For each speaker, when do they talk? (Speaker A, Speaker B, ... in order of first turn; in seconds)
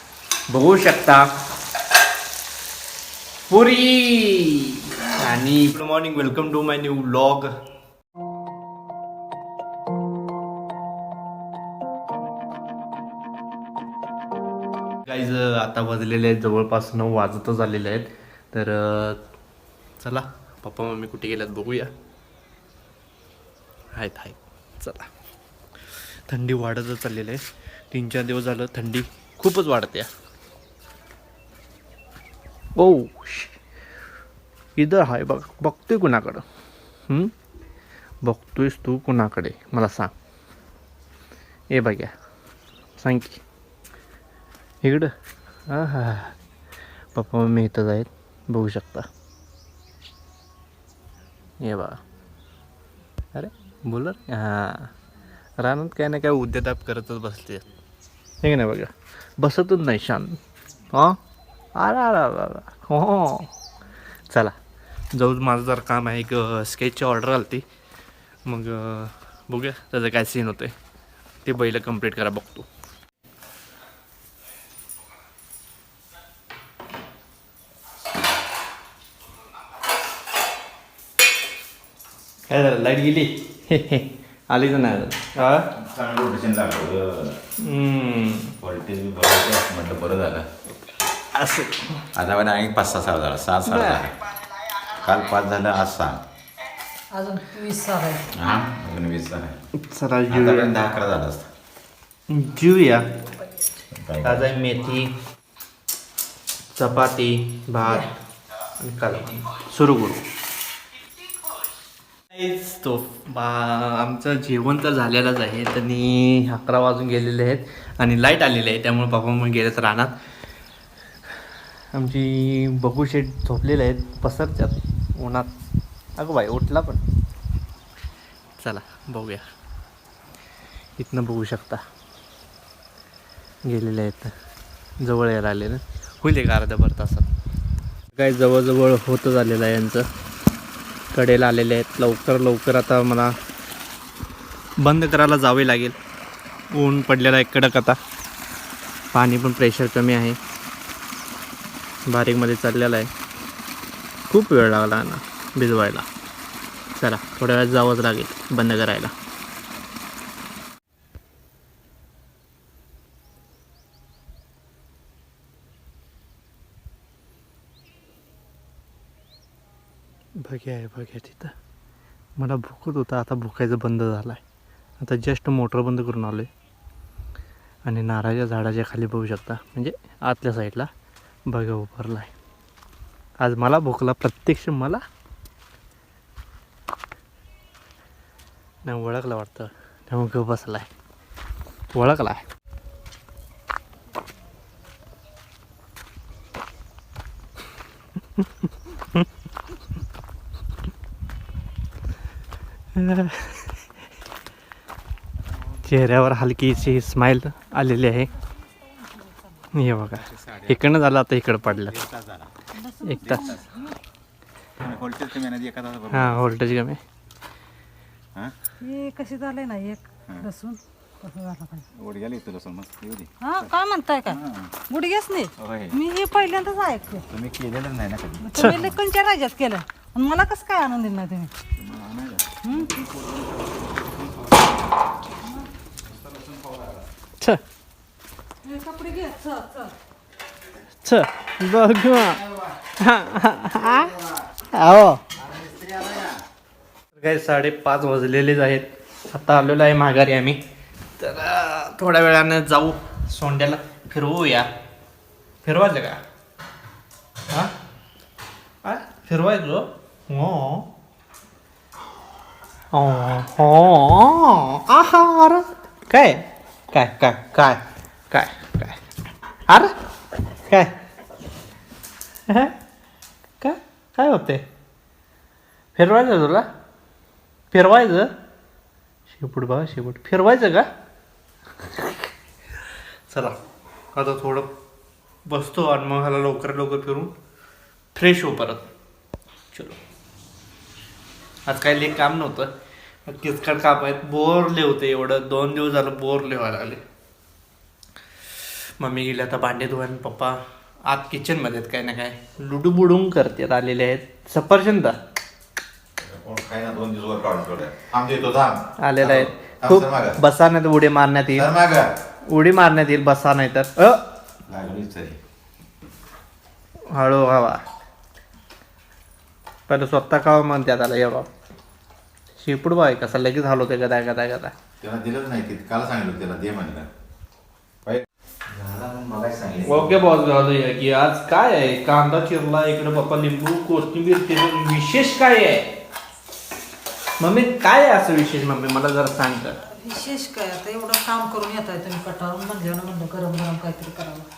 Speaker A: 0.5-1.3, 3.5-7.5, 15.1-19.2, 20.0-21.9, 23.9-25.1, 26.3-30.1, 32.8-33.5, 34.8-36.4, 37.1-37.3, 38.2-40.1, 41.7-42.1, 43.0-43.4, 44.8-45.1, 45.7-46.3, 47.1-49.1, 51.6-52.0, 53.3-54.9, 55.6-57.7, 58.4-60.4, 60.9-61.2, 61.8-63.5, 64.3-64.5, 65.1-67.6, 68.5-70.7, 71.4-72.7, 82.5-85.7, 87.6-88.5, 91.3-92.0, 93.7-94.0, 99.8-100.8, 102.3-103.0, 104.2-105.1, 106.8-108.1, 108.8-110.2, 112.3-120.1, 121.9-125.5, 126.2-127.0, 128.6-129.5, 131.0-131.8, 133.6-134.3, 135.0-137.3, 138.1-140.1, 141.1-143.3, 144.8-145.9, 146.7-148.0, 149.1-150.4, 152.1-153.1, 154.3-156.1, 157.0-159.1, 170.4-171.5, 172.4-174.4, 175.0-176.5, 177.8-180.9, 181.5-182.3, 183.4-185.0, 188.8-190.9, 191.9-192.4, 202.9-203.7, 205.8-208.3, 209.7-212.0, 213.0-213.6, 216.1-217.0, 241.0-244.2, 244.7-245.2, 247.1-250.6, 251.2-254.7, 255.6-256.2, 258.8-260.9, 262.9-269.0, 269.7-269.9, 270.7-270.9, 272.5-272.8, 273.6-274.6, 275.9-276.7, 277.7-278.3, 279.3-280.9, 281.8-282.3, 283.3-283.6, 284.1-284.7, 285.4-287.3, 288.1-288.9, 289.7-290.0, 291.7-292.7, 293.2-297.0, 299.0-305.2, 309.0-311.7, 312.5-314.2, 317.1-317.8, 319.9-321.5, 322.6-324.7, 329.9-335.9, 337.4-339.8
Speaker B: 85.7-87.4, 88.6-90.4, 92.1-94.1, 94.9-96.2, 98.3-99.5, 100.3-101.5, 103.9-104.5, 210.1-210.8, 211.8-212.5, 213.2-213.8, 214.8-216.4, 221.9-223.7, 224.2-224.7, 225.6-225.9, 227.3-229.0, 231.8-234.4, 236.3-236.8, 245.5-246.3, 306.2-310.4, 311.5-312.1, 314.7-315.4, 325.0-327.1, 328.0-330.2
Speaker C: 97.1-98.3, 212.7-213.9, 218.8-221.9, 223.4-227.2, 228.4-231.5, 232.6-233.0, 238.6-239.9, 339.9-344.5